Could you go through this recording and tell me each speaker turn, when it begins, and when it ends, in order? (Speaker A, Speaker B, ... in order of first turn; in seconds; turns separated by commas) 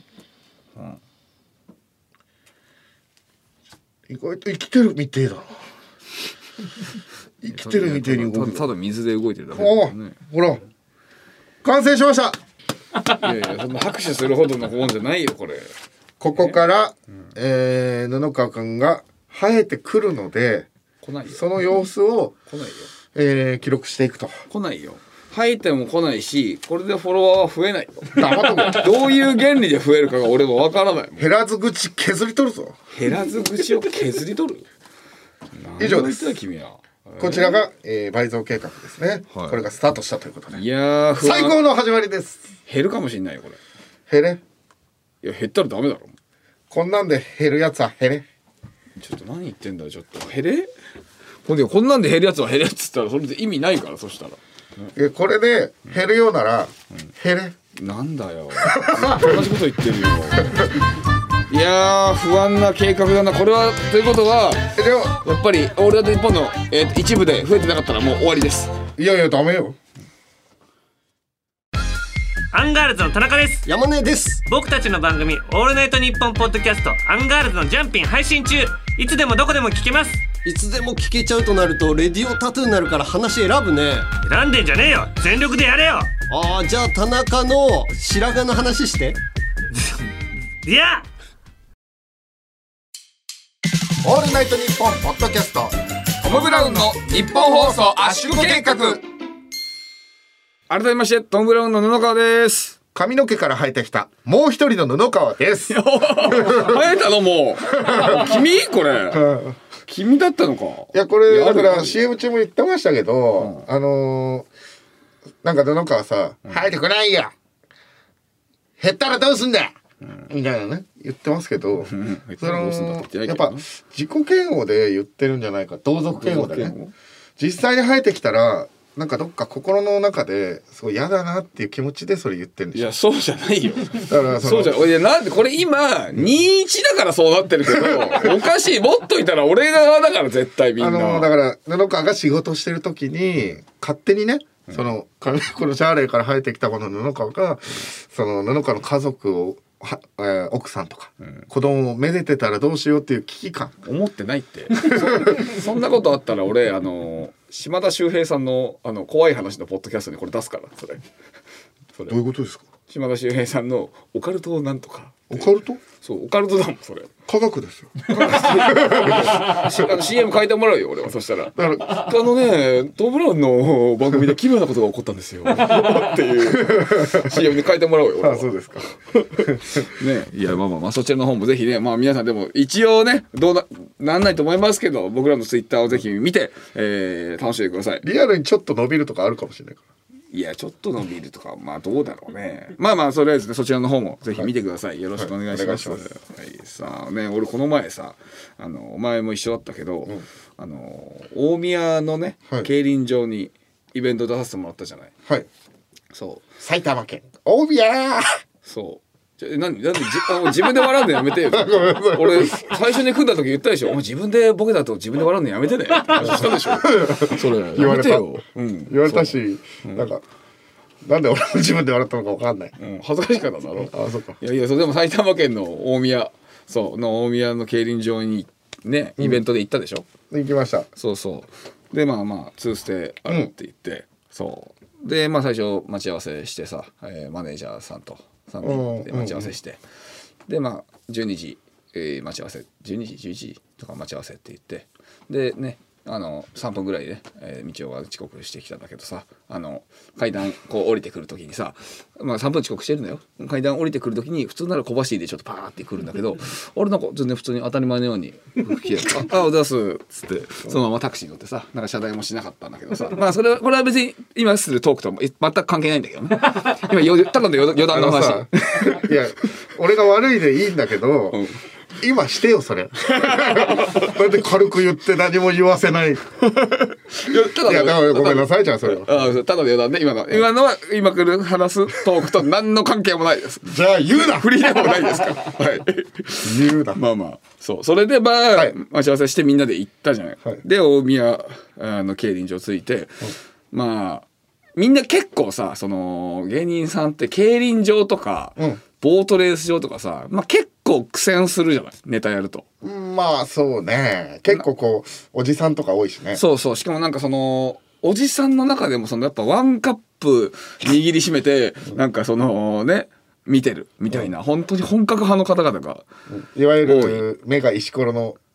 Speaker A: 4.1-5.7, Speaker A: 7.4-8.7, Speaker B: 7.5-10.2, Speaker A: 9.5-10.6, Speaker A: 11.6-12.4, Speaker B: 13.0-15.7, Speaker A: 16.2-20.7, Speaker B: 16.3-16.6, Speaker B: 21.0-21.4, Speaker A: 21.3-22.4, Speaker B: 22.5-22.9, Speaker A: 23.1-24.4, Speaker B: 24.5-31.3, Speaker A: 28.1-28.9, Speaker A: 31.2-32.8, Speaker B: 32.9-34.7, Speaker B: 35.5-37.6, Speaker A: 35.8-36.3, Speaker A: 37.2-40.6, Speaker B: 39.3-39.6, Speaker B: 40.5-41.6, Speaker A: 41.2-42.5, Speaker B: 42.6-43.6, Speaker A: 44.1-44.4, Speaker B: 45.2-46.1, Speaker A: 46.7-48.2, Speaker B: 49.0-50.7, Speaker B: 51.4-54.9, Speaker A: 54.9-57.5, Speaker B: 57.7-60.7, Speaker A: 58.6-59.4, Speaker B: 61.5-64.7, Speaker A: 64.7-65.2, Speaker B: 65.2-68.7, Speaker A: 69.0-69.8, Speaker C: 72.5-73.7, Speaker D: 73.7-74.5, Speaker C: 74.4-80.4, Speaker D: 80.4-84.2, Speaker C: 84.2-86.2, Speaker D: 86.3-89.2, Speaker C: 90.6-91.0, Speaker A: 94.0-99.0, Speaker B: 96.2-99.0, Speaker B: 100.7-102.8, Speaker A: 102.9-106.9, Speaker B: 105.7-109.3, Speaker A: 107.8-108.4, Speaker A: 109.1-109.5, Speaker B: 109.8-112.0, Speaker A: 110.9-114.5, Speaker B: 113.4-113.7, Speaker A: 115.4-117.3, Speaker A: 118.8-119.8, Speaker A: 120.3-126.7, Speaker B: 121.8-123.7, Speaker B: 126.1-126.9, Speaker A: 127.4-132.9, Speaker B: 132.7-141.3, Speaker A: 133.9-134.9, Speaker A: 137.7-138.3, Speaker A: 140.8-153.8, Speaker B: 153.8-161.0, Speaker A: 154.7-155.4, Speaker A: 162.1-162.7, Speaker B: 162.9-165.5, Speaker A: 165.3-165.8, Speaker B: 166.0-167.1, Speaker A: 167.2-169.8, Speaker B: 168.1-178.5, Speaker A: 171.5-172.1, Speaker A: 175.8-177.4, Speaker A: 178.2-179.8, Speaker B: 179.7-188.1, Speaker A: 188.0-189.8, Speaker B: 190.3-205.1, Speaker A: 195.2-196.1, Speaker B: 206.1-206.5, Speaker A: 206.6-208.4, Speaker B: 208.6-220.1, Speaker A: 211.4-212.8, Speaker A: 216.1-220.2, Speaker A: 221.0-222.8, Speaker B: 222.8-230.1, Speaker A: 223.8-224.4, Speaker A: 230.3-230.9, Speaker B: 230.9-239.8, Speaker A: 238.6-239.5, Speaker B: 240.5-269.1, Speaker A: 267.8-271.4, Speaker B: 271.3-271.6, Speaker A: 272.0-279.3, Speaker B: 273.1-274.1, Speaker B: 277.1-302.6, Speaker A: 283.6-284.9, Speaker A: 286.4-287.0, Speaker A: 302.8-306.4, Speaker B: 306.3-316.1, Speaker A: 316.3-318.4, Speaker B: 316.8-317.2